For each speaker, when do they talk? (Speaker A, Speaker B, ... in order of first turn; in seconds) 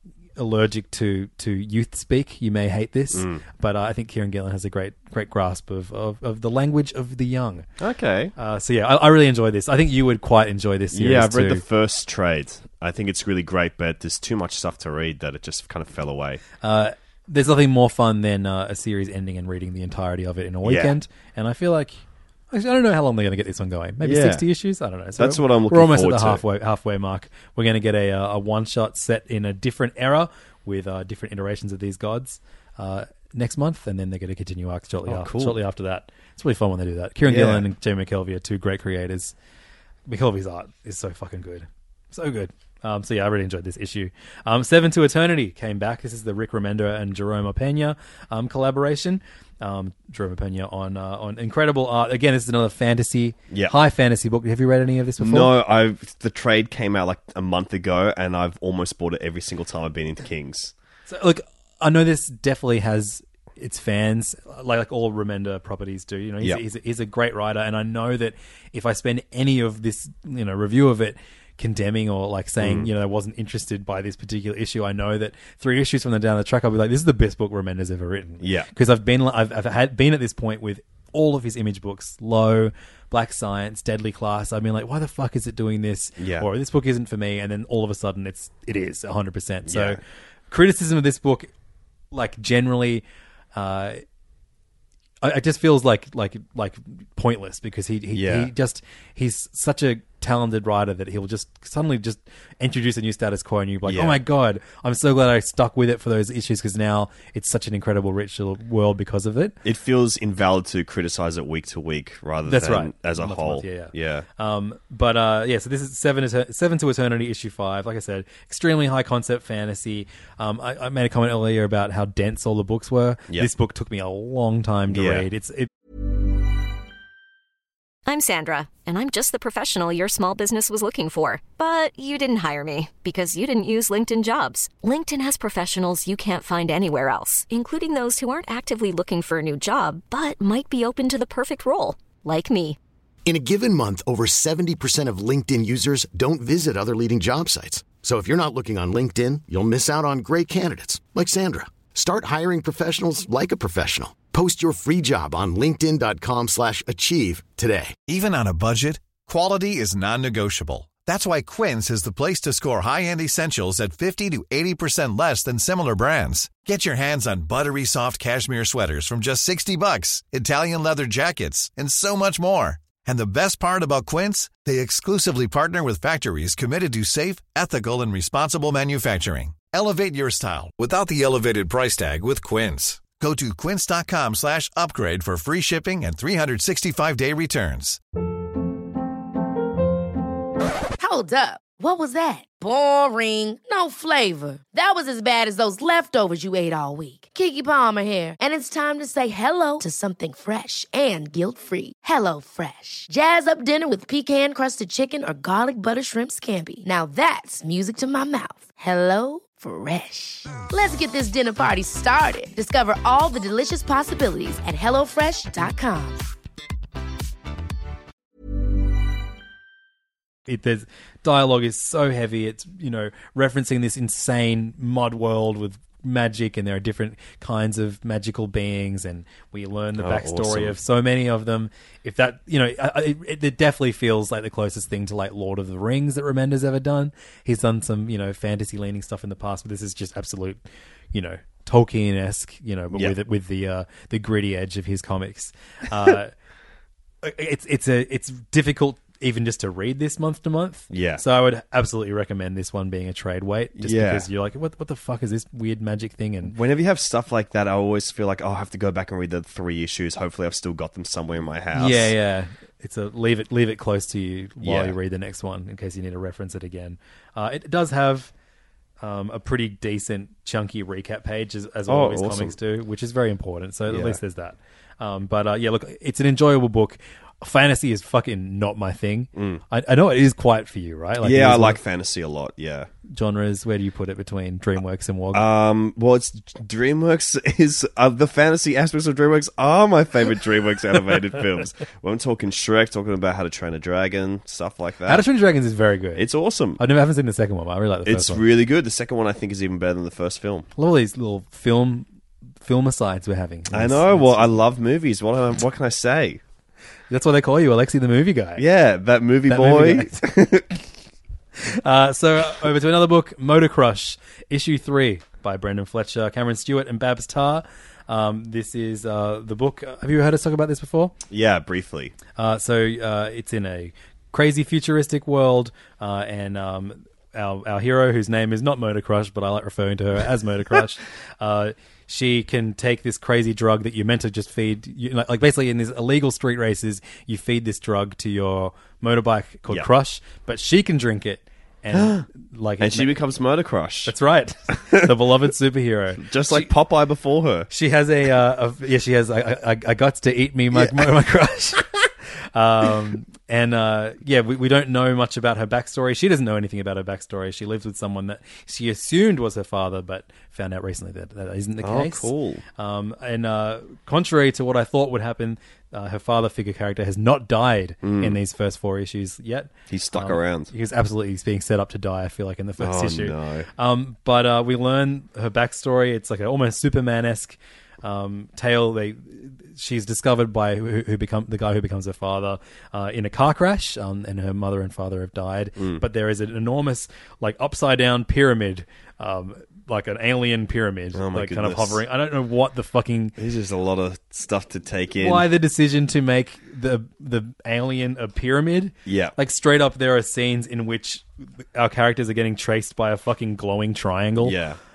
Speaker A: 0.4-7.7, 8.4-11.6, 16.6-39.3, 40.1-55.5, 61.1-91.5, 92.1-94.0, 95.2-109.5, 112.5-125.7, 220.5-246.3, 247.2-256.5, 261.7-268.3, 269.0-281.8, 283.1-285.4, 295.1-296.2, 296.8-298.4, 300.8-302.1, 302.6-304.6, 307.1-308.6, 309.5-310.2, 311.6-321.1, 322.4-343.1, 344.1-346.7, 347.7-351.9, 352.5-393.3, 395.1-404.6
Speaker B: 3.1-3.4, 7.8-8.3, 10.9-16.4, 20.6-20.9, 24.0-24.4, 25.2-26.4, 35.0-35.6, 37.3-37.6, 55.2-60.7, 72.6-72.9, 78.4-78.7, 86.2-86.5, 89.7-90.0, 98.1-98.5, 103.8-104.2, 109.6-114.3, 124.9-125.3, 230.0-230.8, 250.9-251.2, 253.8-254.2, 256.5-262.1, 264.6-264.9, 271.9-272.5, 273.9-274.2, 279.3-279.6, 281.2-282.9, 285.3-295.2, 296.1-296.8, 298.1-300.7, 303.7-306.4, 308.6-310.8, 321.3-322.1, 341.9-342.2, 342.8-344.1, 344.8-345.0, 346.2-347.7, 350.7-351.1, 361.8-362.6, 368.0-368.4, 369.9-370.7, 372.8-373.7, 385.8-386.0, 391.1-392.0, 393.4-395.4, 399.1-399.3, 404.4-404.8
Speaker C: 128.1-142.8
Speaker D: 143.2-158.0
Speaker E: 158.1-188.0
Speaker F: 191.0-216.2